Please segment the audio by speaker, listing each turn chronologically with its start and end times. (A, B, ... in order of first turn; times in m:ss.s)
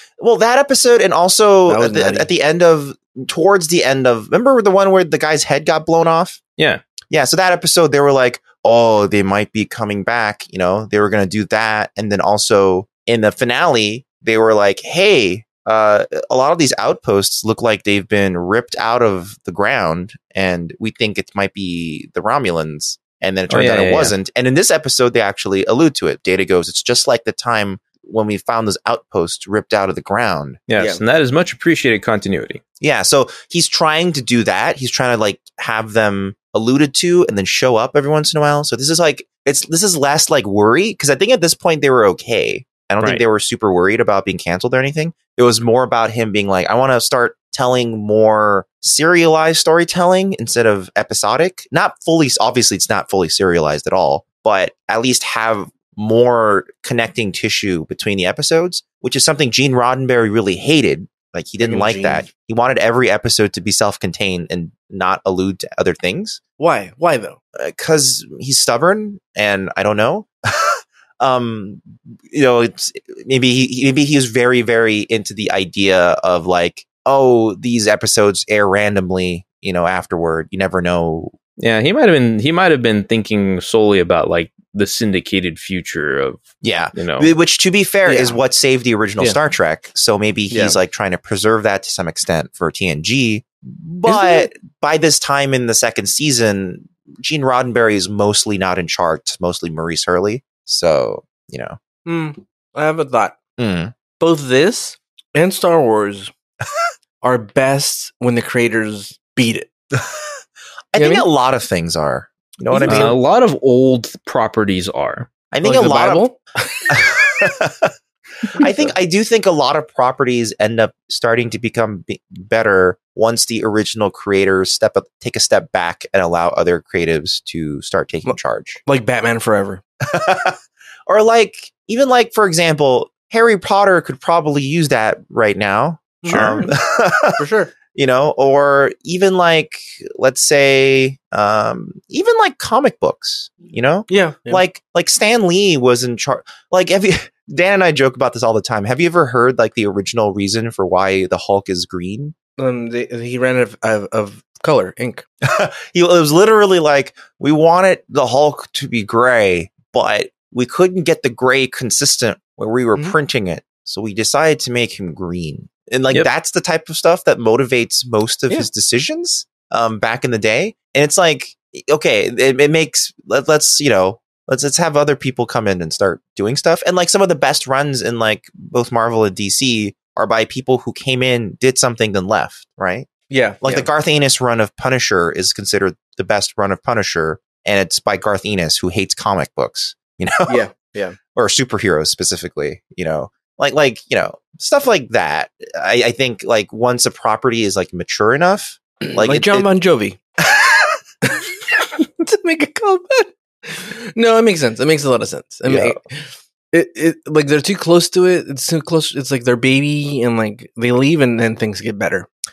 0:00.2-0:06.4 A
0:01.7-0:02.3 B
0:07.1-0:30.6 A
0:23.5-0:24.1 C
0:30.7-0:32.6 C
0:30.8-0:31.0 B
0:32.8-1:06.4 A
1:01.6-1:02.3 B
1:06.6-1:07.4 B
1:07.6-1:21.4 A
1:21.6-1:27.3 C
1:26.6-1:41.8 A
1:28.0-1:28.4 B
1:30.5-1:30.8 B
1:34.0-1:34.5 B
1:42.0-1:43.4 B
1:43.6-1:43.9 A
1:44.2-1:46.3 B
1:47.2-1:49.7 B
1:49.9-1:50.2 A
1:50.9-1:53.2 A
1:51.0-1:51.3 B
1:52.7-1:53.1 B
1:52.8-1:55.3 C
1:55.5-1:56.3 A
1:55.6-1:56.9 B
1:56.9-1:57.9 A
1:58.5-2:08.8 A
1:58.6-1:58.9 B
2:08.2-2:09.8 B
2:10.0-2:17.4 A
2:16.2-2:16.7 B
2:17.4-2:17.7 B
2:17.9-2:32.3 A
2:24.1-2:24.6 B
2:32.6-2:35.2 B
2:35.4-3:03.1 A
3:03.3-3:03.9 B
3:03.6-3:10.6 A
3:10.5-3:11.2 B
3:11.3-3:19.7 A
3:19.0-3:20.2 B
3:20.5-3:20.8 A
3:22.2-3:26.0 B
3:25.6-3:26.0 A
3:26.7-3:32.3 B